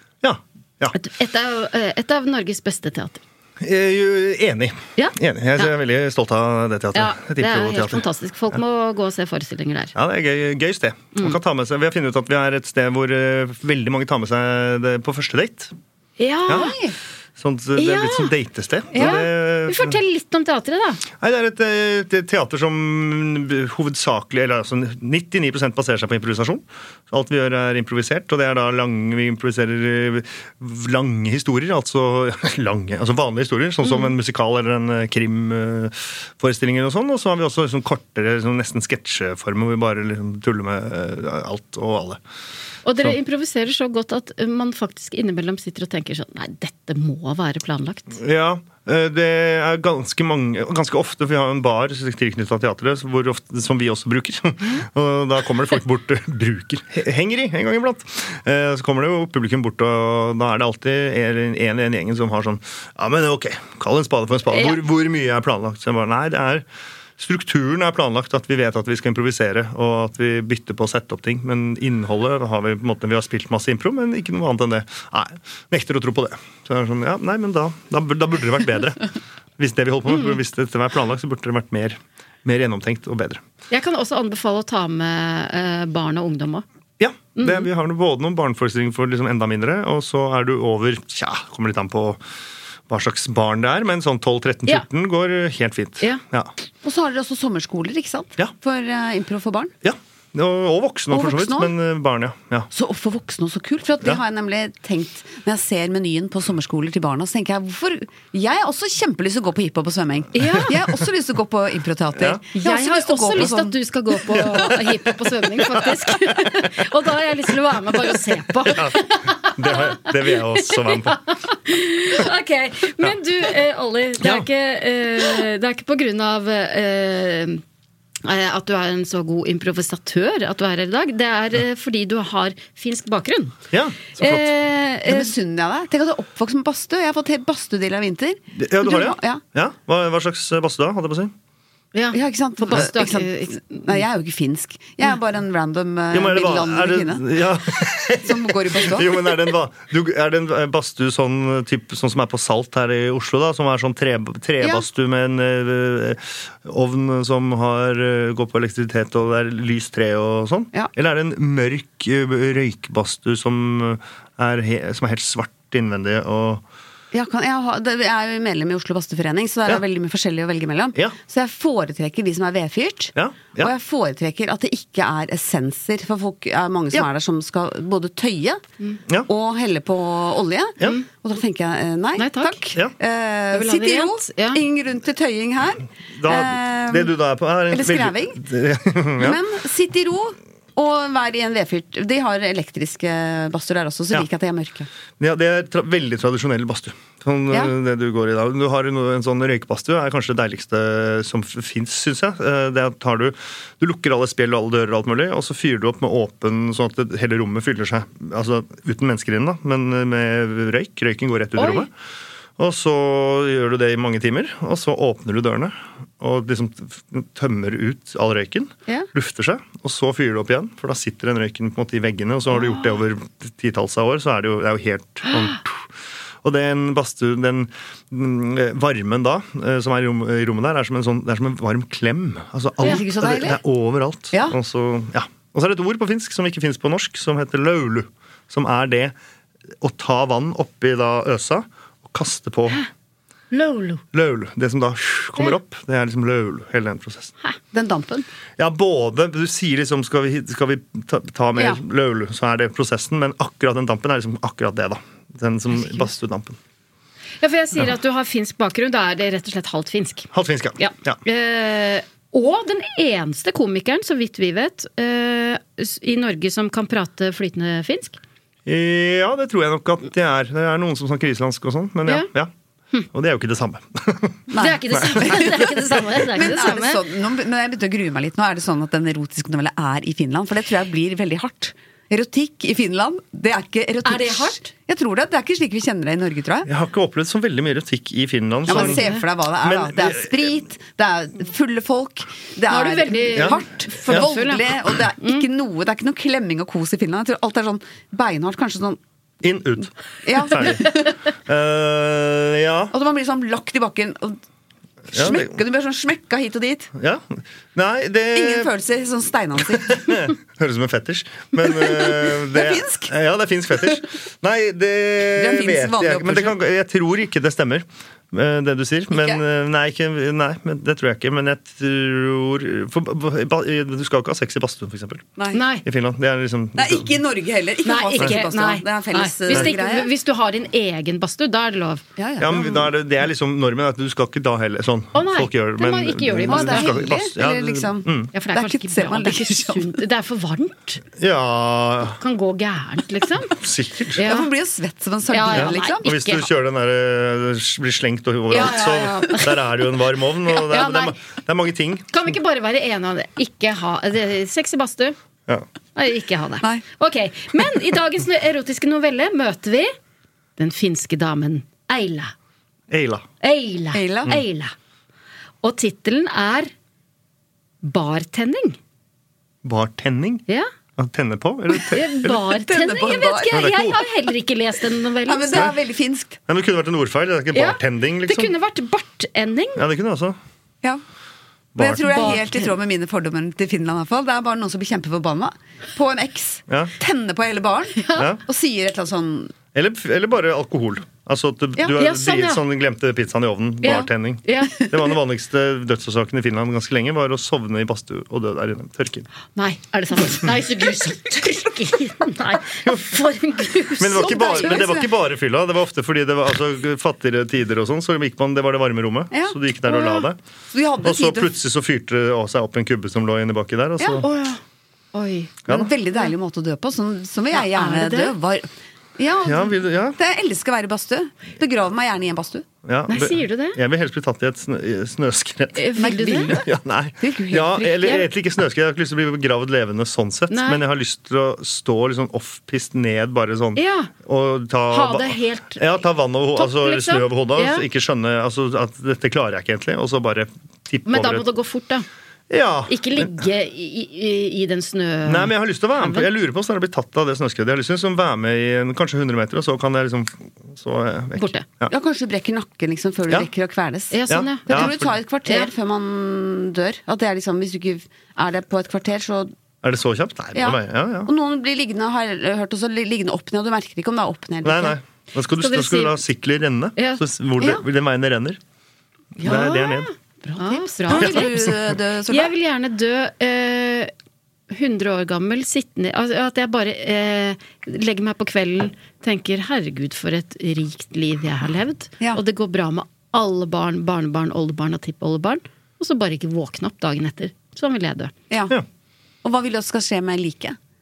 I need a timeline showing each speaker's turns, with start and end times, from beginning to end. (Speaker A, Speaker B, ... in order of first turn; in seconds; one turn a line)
Speaker A: 0.2-0.9
Speaker B: 0.9-3.2
Speaker A: 3.6-8.6
Speaker B: 5.0-5.7
Speaker B: 6.9-9.9
Speaker A: 9.9-15.7
Speaker B: 16.2-16.8
Speaker C: 16.5-16.9
Speaker A: 17.4-20.0
Speaker B: 17.8-18.3
Speaker B: 18.9-21.0
Speaker A: 21.2-42.2
Speaker B: 42.8-48.2
Speaker A: 48.2-66.6
Speaker B: 64.5-64.8
Speaker A: 67.2-79.0
Speaker A: 79.6-83.4
Speaker B: 80.1-80.3
Speaker B: 83.7-86.6
Speaker A: 87.0-92.2
Speaker B: 87.4-87.7
Speaker A: 92.9-96.5
Speaker C: 96.8-99.7
Speaker A: 99.8-102.7
Speaker C: 101.1-101.7
Speaker C: 102.7-113.8
Speaker B: 110.3-110.7
Speaker A: 112.2-112.4
Speaker B: 112.5-127.6
Speaker A: 114.3-116.5
Speaker A: 118.7-119.0
Speaker A: 119.5-121.2
Speaker B: 128.2-133.6
Speaker A: 133.7-134.4
Speaker B: 134.2-135.3
Speaker C: 135.1-139.4
Speaker A: 138.6-141.3
Speaker B: 141.9-143.9
Speaker C: 142.1-147.2
Speaker A: 146.1-166.6
Speaker C: 148.2-149.3
Speaker C: 167.1-178.6
Speaker A: 173.1-173.7
Speaker C: 179.3-187.1
Speaker B: 182.2-182.6
Speaker B: 183.5-184.6
Speaker A: 186.2-189.4
Speaker C: 187.7-188.4
Speaker C: 189.2-194.9
Speaker A: 195.2-211.9
Speaker B: 211.6-211.9
Speaker A: 212.6-225.8
Speaker B: 222.6-222.8
Speaker A: 226.4-239.1
Speaker C: 232.8-233.6
Speaker A: 239.8-242.8
Speaker B: 243.5-244.0
Speaker A: 244.1-247.3
Speaker C: 247.7-248.2
Speaker A: 248.6-256.6
Speaker B: 255.7-256.1
Speaker B: 257.4-268.2
Speaker A: 260.3-261.2
Speaker A: 268.6-272.5
Speaker A: 273.1-274.4
Speaker C: 274.5-286.7
Speaker B: 274.6-277.0
Speaker B: 284.0-284.7
Speaker A: 286.6-289.1
Speaker C: 288.7-299.0
Speaker B: 288.7-289.2
Speaker A: 289.6-290.3
Speaker B: 292.7-295.4
Speaker A: 299.4-302.9
Speaker C: 300.2-301.1
Speaker C: 302.9-304.4
Speaker A: 305.1-305.5
Speaker C: 305.1-306.9
Speaker A: 306.9-308.7
Speaker C: 308.3-310.2
Speaker A: 309.9-325.3
Speaker C: 311.7-313.1
Speaker C: 315.4-316.6
Speaker C: 319.1-319.4
Speaker B: 325.5-325.8
Speaker A: 325.8-327.1
Speaker C: 326.8-330.1
Speaker B: 327.8-332.0
Speaker C: 332.2-332.9
Speaker A: 332.4-338.3
Speaker B: 335.1-336.9
Speaker C: 336.4-339.9
Speaker B: 338.3-341.0
Speaker A: 341.2-342.2
Speaker B: 342.2-343.5
Speaker A: 343.5-344.2
Speaker B: 344.1-344.5
Speaker C: 344.2-346.0
Speaker B: 345.3-346.4
Speaker A: 345.5-352.1
Speaker B: 348.5-349.7
Speaker B: 350.5-351.1
Speaker B: 352.1-355.1
Speaker B: 355.9-359.9
Speaker B: 360.6-362.3
Speaker A: 362.9-363.2
Speaker B: 363.4-364.7
Speaker C: 363.9-364.3
Speaker B: 365.6-366.7
Speaker B: 367.8-368.8
Speaker A: 369.6-370.4
Speaker A: 371.0-372.4
Speaker B: 371.9-375.7
Speaker C: 372.4-373.8
Speaker A: 373.5-374.0
Speaker C: 375.3-376.4
Speaker A: 376.5-378.5
Speaker B: 377.5-379.8
Speaker A: 379.8-380.4
Speaker A: 381.7-382.4
Speaker C: 381.8-389.5
Speaker B: 382.1-382.7
Speaker A: 386.7-386.9
Speaker A: 388.1-388.4
Speaker A: 389.7-399.3
Speaker B: 391.9-392.6
Speaker B: 393.8-394.8
Speaker B: 399.5-404.8
Speaker A: 404.0-410.4
Speaker C: 404.1-405.1
Speaker B: 409.9-410.2
Speaker C: 410.7-411.5
Speaker A: 411.0-414.2
Speaker B: 414.1-414.6
Speaker B: 415.1-415.5
Speaker A: 415.7-415.9
Speaker C: 415.7-422.6
Speaker B: 417.5-418.3
Speaker A: 419.4-420.2
Speaker A: 422.8-425.8
Speaker B: 423.1-423.8
Speaker B: 425.7-426.6
Speaker C: 425.9-428.2
Speaker A: 426.6-441.4
Speaker B: 430.5-430.8
Speaker B: 433.8-434.1
Speaker B: 434.9-436.0
Speaker B: 436.6-437.8
Speaker B: 441.1-442.0
Speaker A: 442.5-443.4
Speaker B: 442.9-446.3
Speaker A: 445.2-451.9
Speaker B: 451.4-451.6
Speaker C: 451.9-459.5
Speaker B: 454.1-454.9
Speaker A: 454.3-455.1
Speaker B: 455.4-455.7
Speaker A: 459.8-461.3
Speaker C: 460.5-464.9
Speaker A: 464.6-468.6
Speaker B: 465.6-466.2
Speaker B: 466.9-467.8
Speaker A: 469.4-470.1
Speaker B: 469.4-471.5
Speaker C: 470.4-472.5
Speaker A: 471.1-471.7
Speaker B: 472.3-474.1
Speaker B: 474.7-488.3
Speaker C: 489.4-490.8